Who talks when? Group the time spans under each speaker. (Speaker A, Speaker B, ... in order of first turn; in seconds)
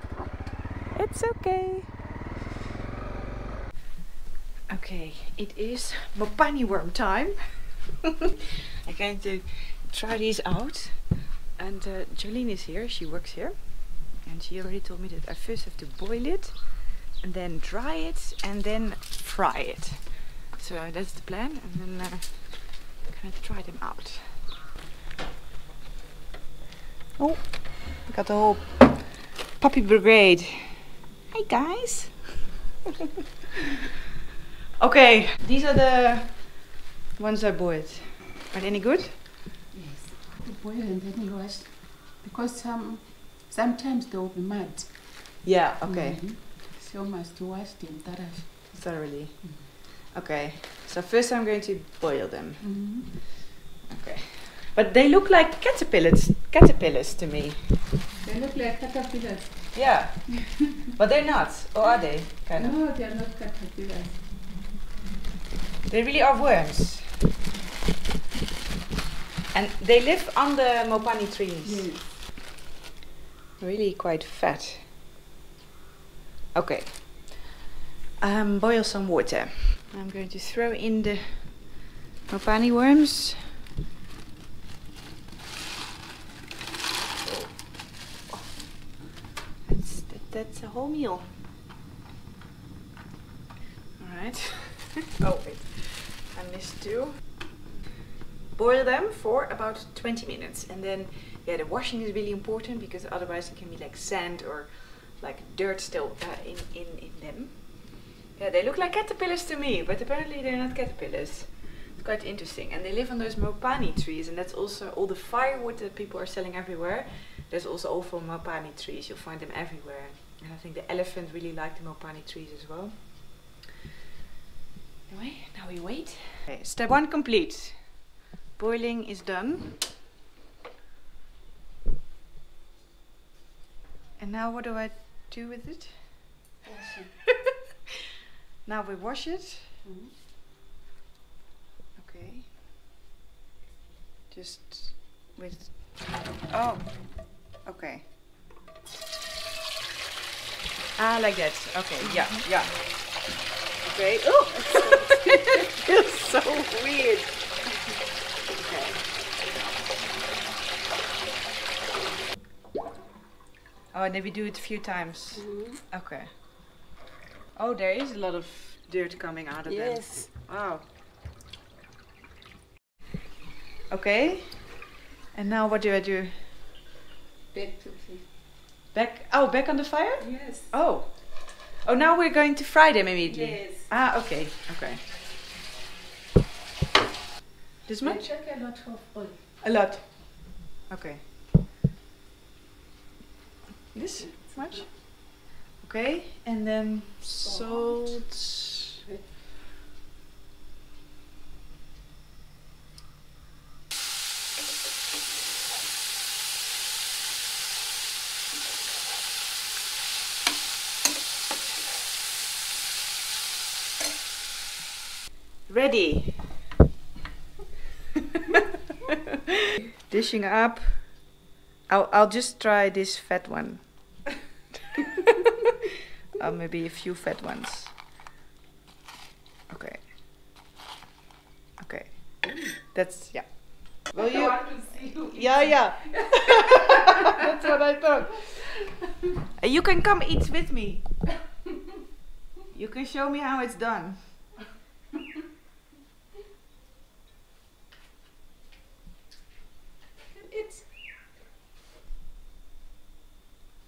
Speaker A: 0.9-1.9, 4.7-8.1, 8.8-24.4, 27.2-32.5, 34.8-39.2, 45.4-46.3, 48.7-53.2, 53.8-57.8, 59.7-62.8, 65.9-67.1, 69.5-71.9, 73.6-74.9, 76.5-77.5, 78.2-83.5, 87.2-88.6, 89.6-91.3, 94.0-97.5, 98.5-123.6, 125.1-129.8, 134.2-136.4, 138.6-139.8, 141.9-142.5, 144.3-148.1, 150.9-153.3, 153.8-157.4, 158.6-159.1, 163.9-166.4, 167.6-170.9, 173.9-176.5, 178.9-185.1, 187.8-188.3, 189.6-191.3, 193.9-198.8, 215.7-216.6, 220.0-224.3, 226.3-227.9, 229.7-230.1, 231.8-238.7, 239.6-241.2, 242.7-244.6
Speaker B: 39.7-49.7, 52.6-53.1, 58.2-60.1, 62.5-64.2, 71.6-72.2, 136.6-137.4, 139.8-140.1, 165.3-165.8, 169.7-170.3, 177.5-178.3, 180.2-180.7, 183.2-183.9, 188.0-189.4, 194.2-194.8, 197.4-198.3, 199.0-199.4, 232.4-232.8, 234.1-237.3, 250.3-251.0